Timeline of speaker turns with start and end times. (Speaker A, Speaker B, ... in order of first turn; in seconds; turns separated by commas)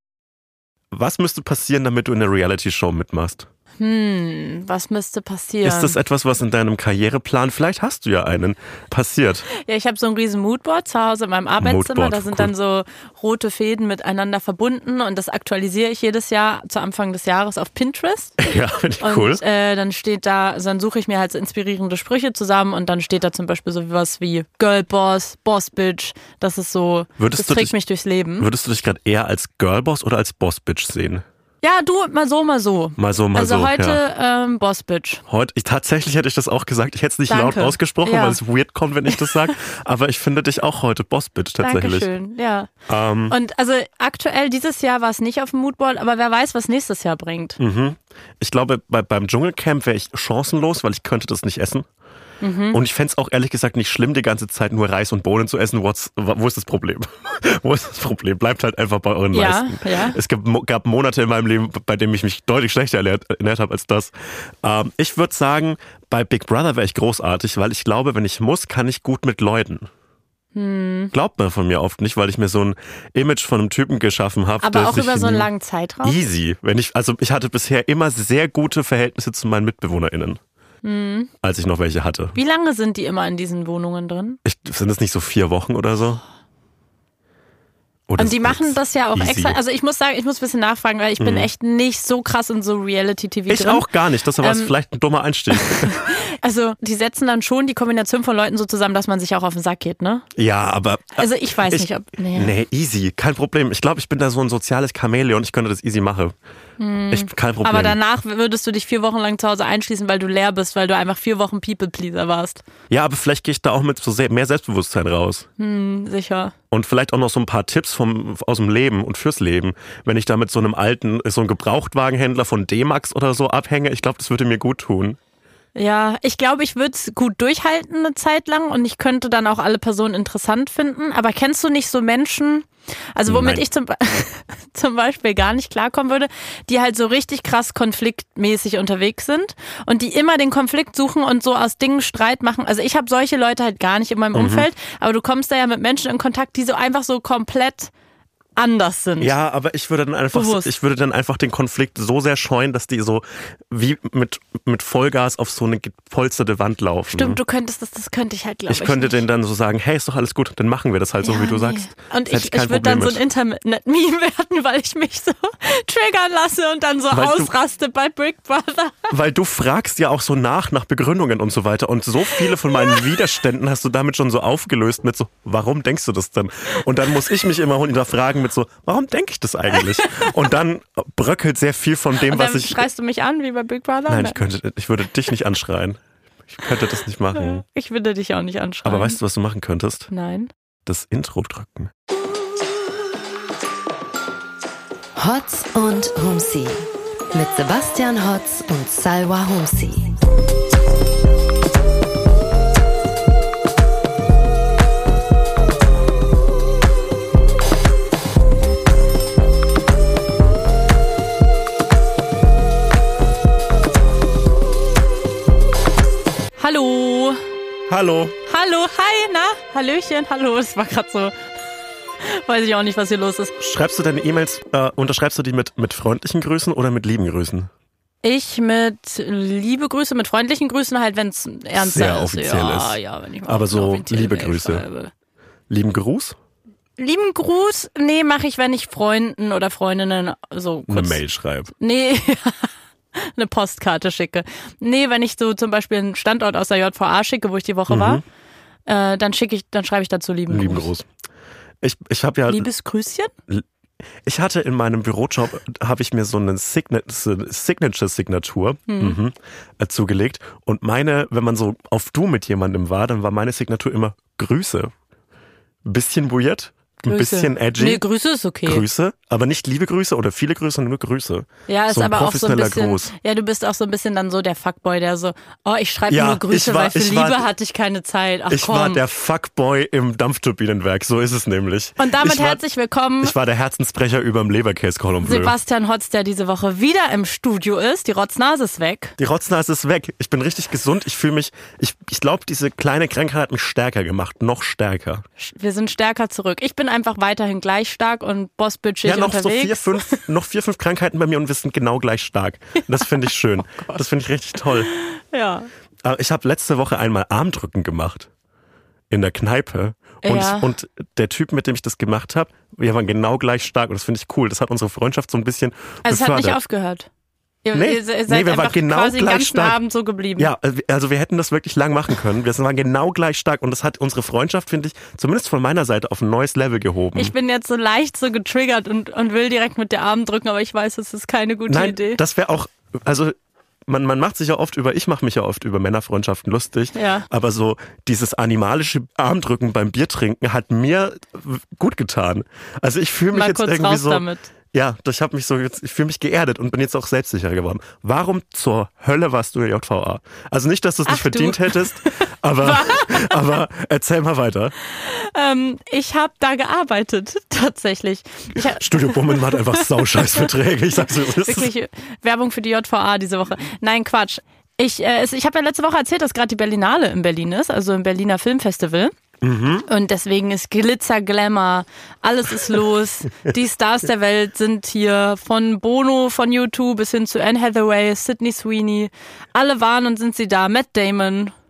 Speaker A: 0.9-3.5, Speaker B: 3.8-6.0, Speaker A: 5.6-9.5, Speaker B: 9.5-18.4, Speaker A: 11.6-12.5, Speaker A: 18.4-19.4, Speaker B: 19.0-28.5, Speaker A: 27.2-27.7, Speaker A: 28.4-31.2, Speaker B: 31.6-35.2, Speaker A: 33.0-34.0, Speaker A: 35.3-42.1, Speaker B: 37.3-38.4, Speaker B: 39.1-39.5, Speaker B: 41.6-42.7, Speaker A: 42.9-43.4, Speaker B: 43.3-47.6, Speaker A: 47.6-51.9, Speaker B: 52.4-52.8, Speaker A: 52.7-69.9, Speaker B: 59.3-60.2, Speaker B: 70.5-71.1, Speaker A: 71.1-75.5, Speaker B: 74.6-76.2, Speaker A: 76.0-80.4, Speaker B: 80.8-81.3, Speaker A: 81.4-82.4, Speaker B: 82.3-84.4, Speaker A: 84.5-86.2, Speaker A: 88.1-89.6, Speaker B: 88.2-93.9, Speaker A: 91.2-91.5, Speaker A: 93.5-96.0, Speaker B: 94.4-94.7, Speaker B: 95.6-100.3, Speaker A: 100.4-106.3, Speaker B: 101.2-102.5, Speaker B: 106.8-112.6, Speaker A: 107.1-108.0, Speaker A: 112.9-115.5, Speaker B: 115.6-116.5, Speaker A: 116.7-125.2, Speaker B: 125.8-147.9, Speaker A: 133.3-133.6, Speaker A: 144.3-144.7, Speaker B: 148.6-149.3, Speaker A: 149.2-157.4, Speaker B: 150.3-150.7, Speaker B: 157.1-159.2, Speaker A: 158.7-163.2, Speaker B: 161.2-169.1, Speaker A: 167.1-167.5, Speaker A: 169.1-182.9, Speaker B: 172.4-173.1, Speaker B: 179.8-180.2, Speaker B: 182.2-184.4, Speaker A: 184.1-187.6, Speaker B: 187.3-189.2, Speaker A: 188.8-190.1, Speaker B: 190.1-190.5, Speaker A: 190.9-191.9, Speaker C: 195.2-200.2, Speaker B: 216.6-217.4, Speaker A: 217.9-218.4, Speaker B: 218.5-221.4, Speaker B: 222.2-223.6, Speaker A: 223.6-227.7, Speaker B: 228.2-235.1, Speaker A: 231.8-234.8, Speaker A: 235.7-236.4, Speaker B: 237.0-241.2, Speaker A: 240.9-241.7, Speaker B: 241.7-248.2, Speaker A: 247.9-248.2, Speaker B: 248.9-250.9, Speaker A: 250.5-251.1, Speaker A: 251.8-252.7, Speaker B: 252.5-253.3, Speaker A: 254.2-264.9, Speaker B: 258.9-259.2, Speaker A: 265.8-268.0, Speaker B: 267.1-268.9, Speaker A: 268.7-273.1, Speaker B: 271.7-279.0, Speaker A: 276.1-277.4, Speaker A: 278.5-282.6, Speaker B: 282.0-283.4, Speaker A: 283.2-285.5, Speaker B: 285.2-289.1, Speaker A: 289.2-295.2, Speaker B: 295.4-300.2, Speaker A: 299.0-304.9, Speaker B: 303.0-304.0, Speaker B: 304.7-305.7, Speaker A: 306.0-308.3, Speaker A: 309.1-316.6, Speaker B: 310.2-310.7, Speaker B: 316.0-317.1, Speaker B: 317.6-320.5, Speaker A: 317.7-319.8, Speaker A: 320.4-327.3, Speaker B: 327.1-332.2, Speaker A: 331.7-333.4, Speaker A: 333.9-354.8, Speaker B: 336.9-337.3, Speaker B: 343.3-344.5, Speaker B: 351.1-353.4, Speaker B: 354.8-360.5, Speaker A: 358.7-361.7, Speaker B: 361.1-369.1, Speaker A: 369.4-369.9, Speaker B: 369.9-381.5